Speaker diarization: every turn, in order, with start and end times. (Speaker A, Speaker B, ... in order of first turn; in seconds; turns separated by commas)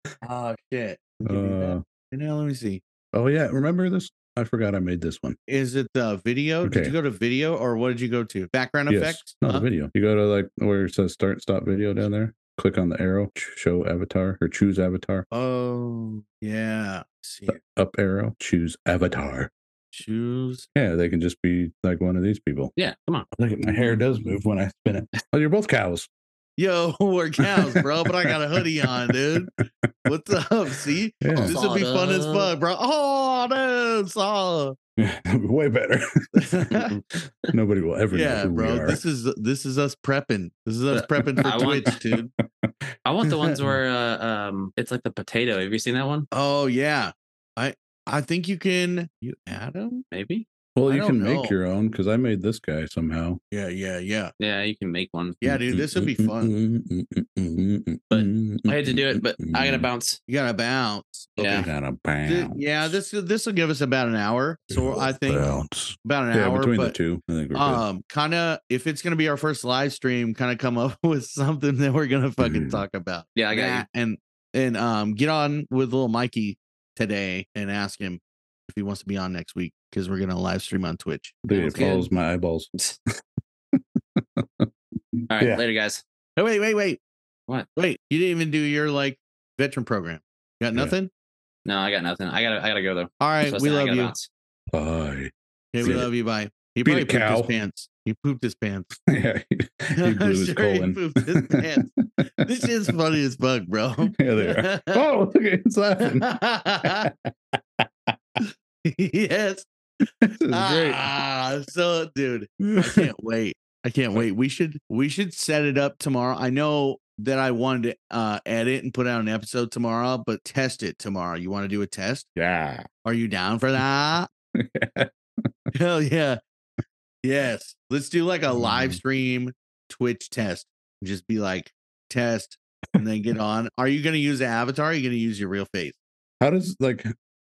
Speaker A: 0.2-2.8, Speaker B: 1.2-1.8, Speaker B: 3.1-5.4, Speaker A: 5.5-9.7, Speaker B: 6.6-6.9, Speaker B: 8.9-15.2, Speaker A: 15.3-17.6, Speaker B: 17.5-19.5, Speaker A: 19.9-20.7, Speaker B: 20.7-22.7, Speaker C: 22.8-23.3, Speaker B: 23.3-26.1, Speaker A: 26.6-29.5, Speaker B: 27.4-29.9, Speaker A: 30.1-34.8, Speaker B: 31.2-31.5, Speaker C: 31.4-32.5, Speaker B: 35.0-39.0, Speaker A: 36.3-37.0, Speaker A: 38.1-42.3, Speaker C: 40.9-42.0, Speaker B: 41.6-41.9, Speaker C: 43.0-46.3, Speaker A: 46.3-50.0, Speaker C: 50.1-50.5, Speaker B: 50.8-53.4, Speaker A: 50.9-51.5, Speaker A: 53.5-54.3, Speaker C: 54.4-55.4, Speaker A: 55.4-56.5, Speaker B: 55.4-59.9, Speaker C: 58.1-60.2, Speaker A: 60.3-61.7, Speaker C: 61.4-61.7, Speaker B: 61.5-63.0, Speaker A: 62.2-67.0, Speaker B: 64.7-67.8, Speaker A: 67.5-82.0, Speaker B: 72.4-72.8, Speaker C: 73.3-73.8, Speaker B: 81.4-82.7, Speaker C: 81.5-82.0, Speaker B: 83.7-85.6, Speaker C: 85.3-86.0, Speaker A: 86.4-87.0, Speaker A: 87.8-91.1, Speaker C: 91.6-94.3, Speaker A: 93.2-94.1, Speaker B: 94.7-96.1, Speaker A: 95.7-98.9, Speaker B: 96.8-97.5, Speaker B: 99.0-102.7, Speaker A: 100.0-105.0, Speaker B: 104.1-108.1, Speaker A: 106.0-107.1, Speaker A: 108.4-109.7, Speaker B: 110.2-111.1, Speaker A: 110.5-122.3, Speaker B: 112.6-113.1, Speaker B: 122.3-122.9, Speaker A: 123.0-124.3, Speaker B: 124.5-125.5, Speaker A: 125.7-126.4, Speaker A: 127.2-136.0, Speaker B: 128.5-129.0, Speaker B: 136.4-137.1